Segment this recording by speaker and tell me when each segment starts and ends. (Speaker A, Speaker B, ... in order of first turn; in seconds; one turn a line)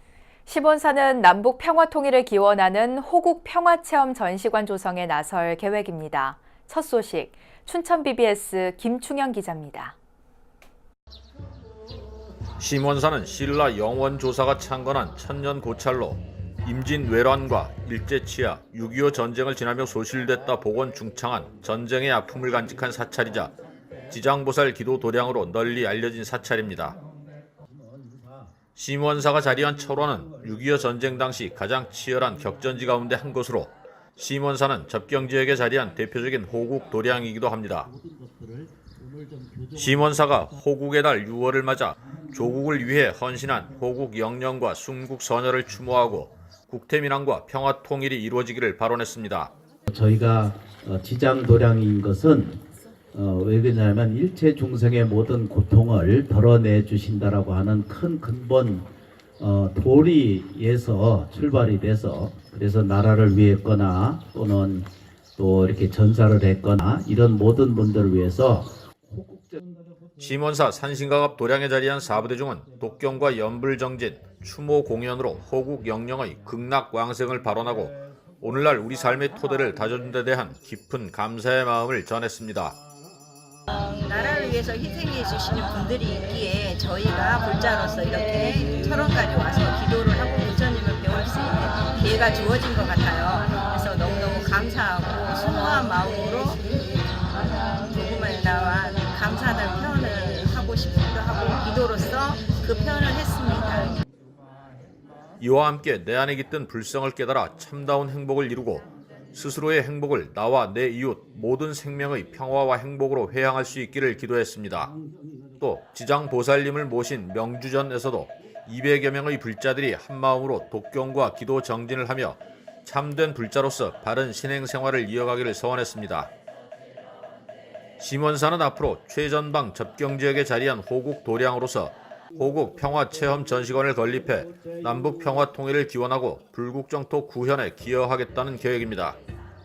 Speaker A: 0.5-9.9
Speaker B: 12.6-23.5
Speaker B: 24.1-27.0
Speaker C: 27.9-28.5
Speaker B: 28.7-37.9
Speaker C: 37.9-39.6
Speaker B: 39.7-49.5
Speaker C: 49.9-52.6
Speaker C: 53.1-69.6
Speaker B: 70.2-82.8
Speaker D: 84.0-96.6
Speaker D: 97.4-104.0
Speaker B: 105.4-114.9
Speaker B: 115.6-126.3
Speaker B: 128.0-139.2